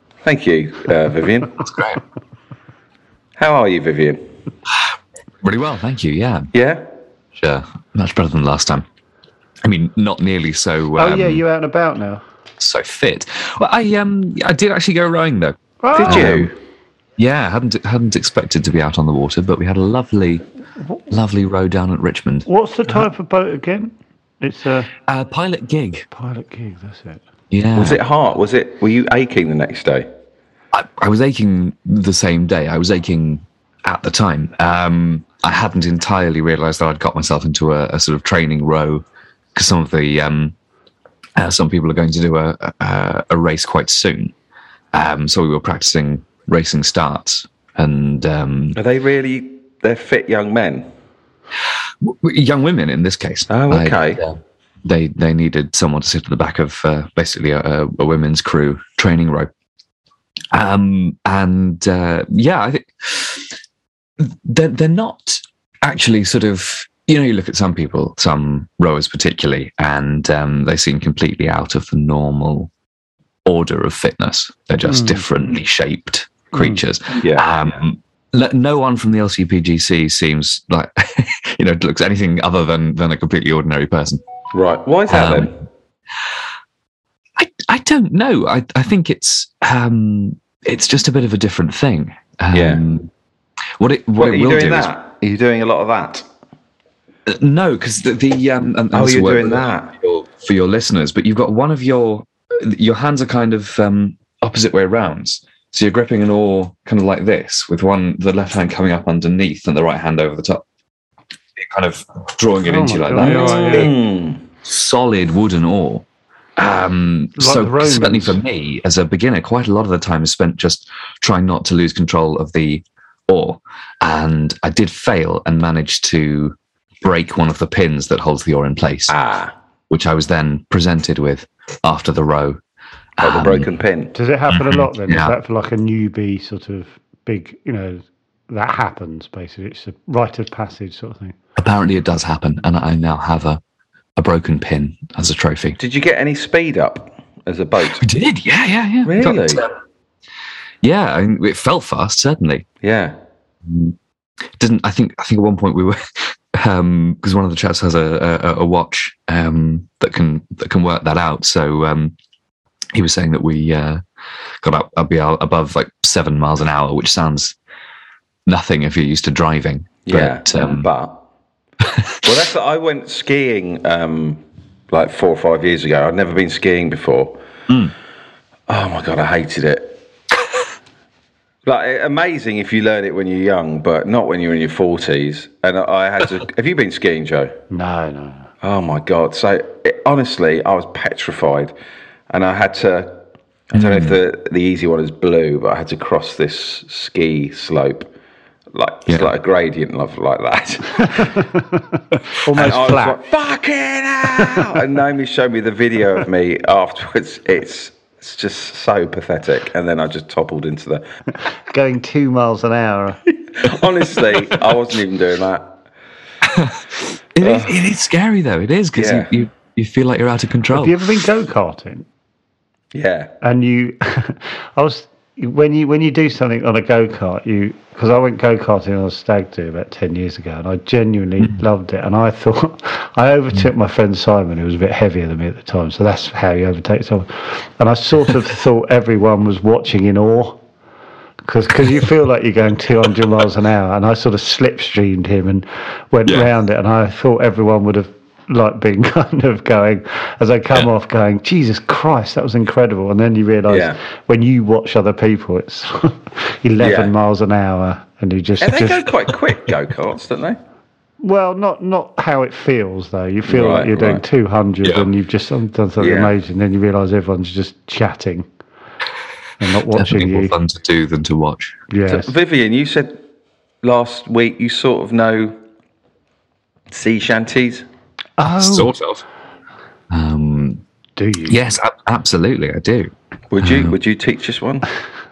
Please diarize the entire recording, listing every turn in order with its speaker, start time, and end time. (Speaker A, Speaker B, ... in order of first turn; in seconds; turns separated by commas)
Speaker A: 0.2-1.6, Speaker B: 1.6-2.0, Speaker A: 3.4-4.2, Speaker B: 5.4-6.5, Speaker A: 6.5-6.8, Speaker B: 7.3-8.8, Speaker B: 9.6-11.4, Speaker C: 11.0-12.2, Speaker B: 12.6-16.5, Speaker C: 15.8-16.4, Speaker A: 15.9-16.5, Speaker B: 17.2-20.4, Speaker B: 21.1-23.0, Speaker C: 22.5-24.9, Speaker B: 25.1-26.1, Speaker C: 26.1-27.2, Speaker B: 27.5-28.0, Speaker A: 27.7-30.1, Speaker B: 30.7-40.5, Speaker B: 41.4-44.3, Speaker B: 44.9-48.8, Speaker A: 48.8-50.9, Speaker B: 52.0-59.5, Speaker A: 53.5-54.2, Speaker B: 60.5-63.5, Speaker B: 64.2-72.7, Speaker B: 73.4-84.2, Speaker C: 74.9-75.2, Speaker C: 76.5-76.8, Speaker A: 77.1-77.5, Speaker A: 84.5-85.5, Speaker B: 85.1-85.5, Speaker B: 87.4-93.1, Speaker A: 92.5-92.8, Speaker B: 93.8-94.9, Speaker A: 94.2-96.2, Speaker B: 97.2-110.6, Speaker A: 98.9-99.9, Speaker B: 111.5-114.0, Speaker C: 112.6-113.9, Speaker A: 113.2-114.4, Speaker B: 114.6-116.0, Speaker B: 116.6-129.1, Speaker C: 117.4-118.4, Speaker A: 129.1-129.5, Speaker B: 129.9-132.6, Speaker B: 133.2-133.7, Speaker A: 133.2-134.1, Speaker C: 134.1-141.3, Speaker B: 134.5-135.3, Speaker B: 141.6-143.6, Speaker B: 144.2-145.8, Speaker A: 145.8-148.0, Speaker B: 148.0-149.7, Speaker A: 149.0-149.6, Speaker B: 150.8-152.7, Speaker A: 152.8-153.2, Speaker B: 153.6-153.9, Speaker B: 154.6-162.1, Speaker B: 162.9-164.0, Speaker B: 164.6-167.6, Speaker B: 168.5-170.9, Speaker A: 170.1-171.2, Speaker B: 171.8-172.1, Speaker A: 172.2-177.4, Speaker A: 178.7-180.0, Speaker A: 181.6-187.5, Speaker C: 187.7-188.5, Speaker A: 188.6-191.7, Speaker A: 192.3-198.1, Speaker B: 193.7-194.2, Speaker A: 198.7-201.5, Speaker B: 199.1-199.3, Speaker C: 201.2-201.8, Speaker C: 202.4-203.2, Speaker A: 202.5-211.0, Speaker C: 211.7-213.2, Speaker A: 213.5-215.8, Speaker B: 216.4-221.1, Speaker A: 217.4-217.8, Speaker A: 218.9-219.3, Speaker C: 220.7-222.1, Speaker A: 222.9-223.3, Speaker C: 223.4-240.6, Speaker C: 241.4-259.1, Speaker A: 253.7-254.0, Speaker A: 256.8-257.1, Speaker A: 258.6-260.6, Speaker C: 261.2-268.5, Speaker A: 263.5-264.2, Speaker B: 264.8-265.1, Speaker A: 266.0-266.3, Speaker C: 269.6-270.5, Speaker B: 269.6-271.8, Speaker C: 271.9-272.3, Speaker A: 272.1-273.2, Speaker A: 273.8-275.6, Speaker A: 276.9-277.9, Speaker C: 278.4-278.9, Speaker B: 278.4-279.2, Speaker B: 280.1-280.8, Speaker C: 281.2-281.6, Speaker B: 281.5-284.0, Speaker A: 283.5-284.9